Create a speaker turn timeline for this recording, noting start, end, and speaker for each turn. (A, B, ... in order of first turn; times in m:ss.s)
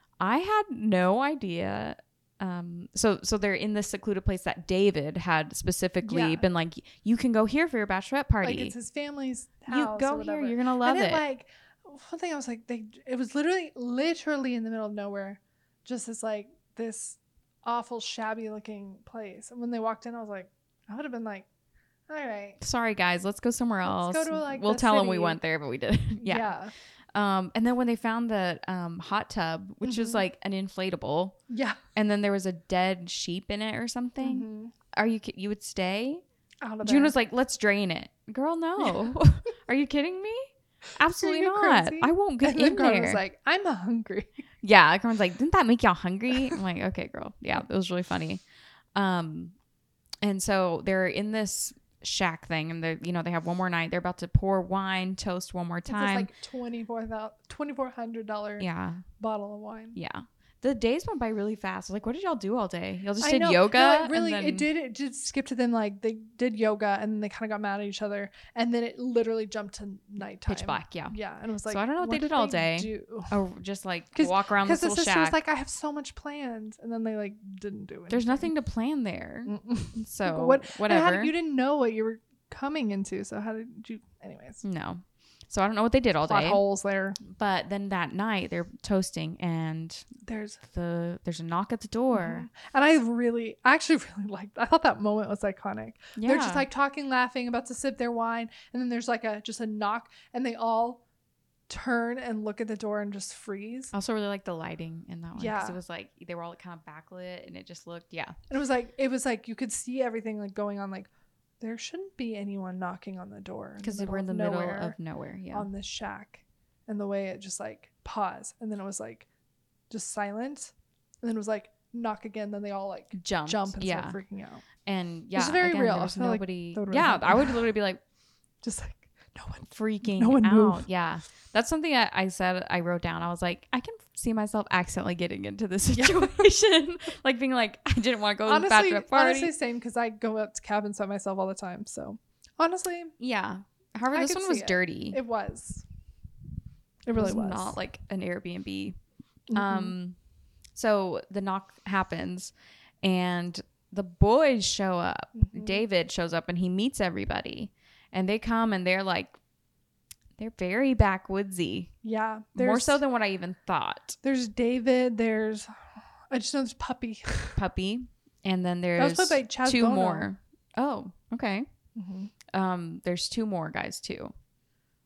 0:00.2-0:08.7 A
0:06.0-0:06.4 B
0:08.4-0:21.5 B
0:09.7-0:11.2 A
0:22.1-0:22.6 B
0:22.6-0:26.5 A
0:23.8-0:25.4 B
0:26.2-0:26.7 B
0:27.1-0:31.4 A
0:29.8-0:30.2 B
0:31.5-0:31.8 B
0:31.9-0:36.2 A
0:34.2-0:34.7 B
0:36.6-0:37.1 B
0:36.8-0:43.2 A
0:38.8-0:39.1 B
0:41.2-0:44.3 B
0:44.6-0:48.4 A
0:48.9-0:49.5 A
0:50.2-0:56.3 A
0:55.9-0:58.7 B
0:58.6-0:59.0 A
0:59.2-1:00.0 B
1:00.0-1:04.7 A
1:03.2-1:13.3 B
1:10.4-1:11.2 A
1:11.7-1:15.4 A
1:14.2-1:18.5 B
1:18.1-1:21.3 A
1:19.5-1:24.6 B
1:24.6-1:26.6 A
1:26.2-1:27.2 B
1:27.2-1:30.1 A
1:30.2-1:30.6 B
1:30.6-1:32.5 A
1:32.1-1:41.0 B
1:36.2-1:36.7 A
1:41.7-1:43.9 B
1:43.9-1:48.4 A
1:45.4-1:45.8 B
1:48.5-1:55.0 B
1:53.8-1:55.7 A
1:55.5-1:59.3 B
1:59.9-2:04.6 B
2:03.1-2:04.2 A
2:04.8-2:08.0 A
2:05.3-2:07.7 B
2:08.6-2:10.8 B
2:09.7-2:19.5 A
2:15.9-2:16.5 B
2:18.5-2:23.1 B
2:23.2-2:25.2 A
2:24.1-2:25.8 B
2:27.0-2:27.8 B
2:27.1-2:29.0 A
2:29.5-2:30.0 B
2:29.5-2:30.2 A
2:30.8-2:39.4 A
2:35.3-2:35.8 B
2:40.4-2:41.9 A
2:42.0-2:43.0 B
2:42.6-2:44.2 A
2:44.2-2:47.6 B
2:47.5-2:51.7 A
2:49.0-2:50.3 B
2:52.0-2:52.3 B
2:52.5-2:54.3 A